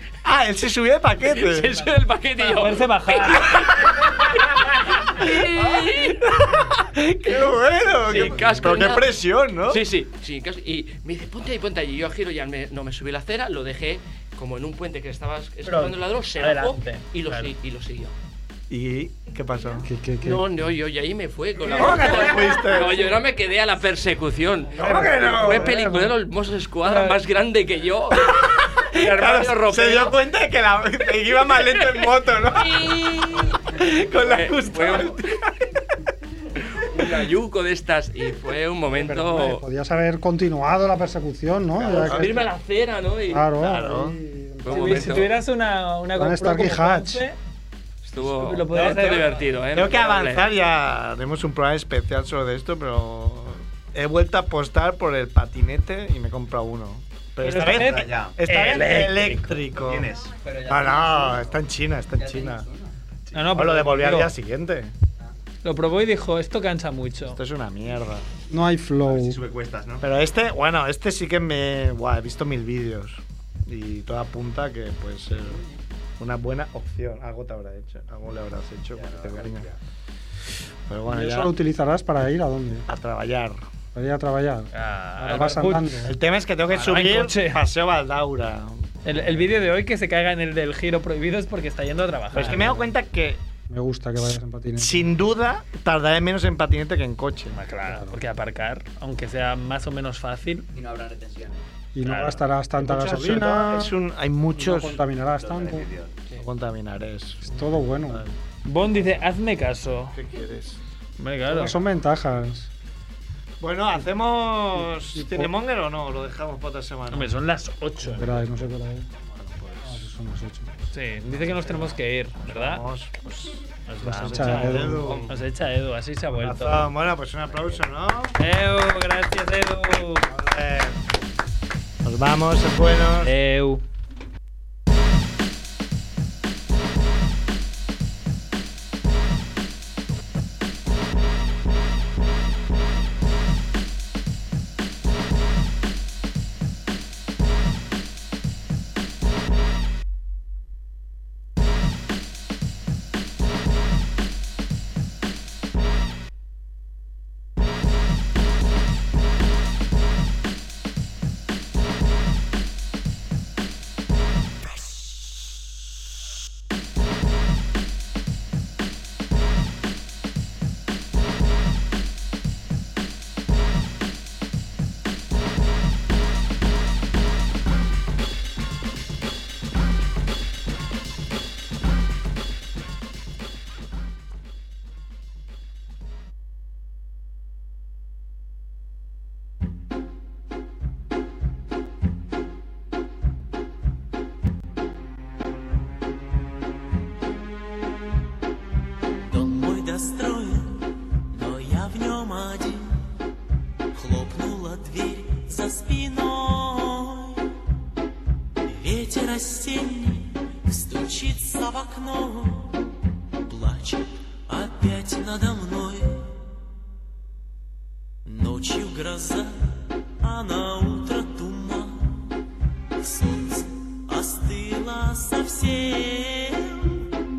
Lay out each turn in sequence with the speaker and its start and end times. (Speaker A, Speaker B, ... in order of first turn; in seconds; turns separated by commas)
Speaker A: 0.2-1.9, Speaker B: 1.2-6.2, Speaker C: 2.4-3.6, Speaker A: 5.2-9.8, Speaker B: 8.0-18.1, Speaker C: 15.7-17.5, Speaker A: 18.7-19.9, Speaker D: 19.8-20.4, Speaker B: 20.2-30.2, Speaker A: 21.7-23.2, Speaker A: 24.8-25.8, Speaker D: 24.8-26.1, Speaker C: 26.9-27.2, Speaker A: 28.1-35.5, Speaker B: 31.5-35.2, Speaker B: 36.7-39.6, Speaker D: 38.9-42.5, Speaker A: 41.8-42.5, Speaker B: 41.9-43.5, Speaker D: 43.3-45.3, Speaker A: 43.5-44.2, Speaker B: 44.6-45.3, Speaker C: 44.7-47.4, Speaker D: 46.1-47.2, Speaker B: 48.0-50.5, Speaker C: 48.3-49.4, Speaker A: 48.8-49.2, Speaker A: 49.7-60.1, Speaker C: 57.4-59.6, Speaker E: 57.5-58.4, Speaker E: 59.7-60.4, Speaker F: 60.3-61.6, Speaker A: 60.6-62.7, Speaker F: 62.2-62.9, Speaker C: 63.3-64.3, Speaker A: 63.5-64.9, Speaker C: 65.6-67.4, Speaker A: 67.3-68.3, Speaker D: 68.5-69.4, Speaker E: 69.0-70.1, Speaker A: 70.0-75.6, Speaker A: 76.2-79.7, Speaker E: 79.0-79.8, Speaker A: 80.9-81.5, Speaker D: 81.0-82.9, Speaker A: 82.9-83.6, Speaker D: 84.0-86.2, Speaker C: 84.7-86.0, Speaker A: 86.0-88.9, Speaker C: 86.7-87.6, Speaker C: 89.0-92.8, Speaker A: 92.3-93.4, Speaker D: 93.7-95.1, Speaker A: 94.3-97.6, Speaker C: 97.5-100.7, Speaker D: 97.9-98.2, Speaker F: 100.7-101.7, Speaker D: 102.0-104.0, Speaker A: 102.8-105.0, Speaker D: 104.5-105.9, Speaker F: 105.4-106.2, Speaker A: 106.3-107.7, Speaker D: 107.4-108.3, Speaker C: 108.7-110.2, Speaker A: 110.1-110.8, Speaker C: 111.2-111.8, Speaker D: 111.5-112.7, Speaker A: 113.6-117.3, Speaker D: 114.8-115.5, Speaker C: 117.1-118.4, Speaker D: 118.2-119.1, Speaker A: 119.4-120.0, Speaker D: 119.8-120.7, Speaker C: 120.9-122.8, Speaker A: 121.4-125.4, Speaker C: 123.9-126.9, Speaker D: 124.1-125.3, Speaker A: 126.3-128.4, Speaker C: 128.4-130.3, Speaker A: 130.3-131.0, Speaker A: 132.0-133.3, Speaker C: 133.2-133.8, Speaker G: 199.3-203.1, Speaker G: 203.9-207.5, Speaker G: 208.7-212.8, Speaker G: 213.5-216.3, Speaker G: 218.2-222.4, Speaker G: 223.0-227.0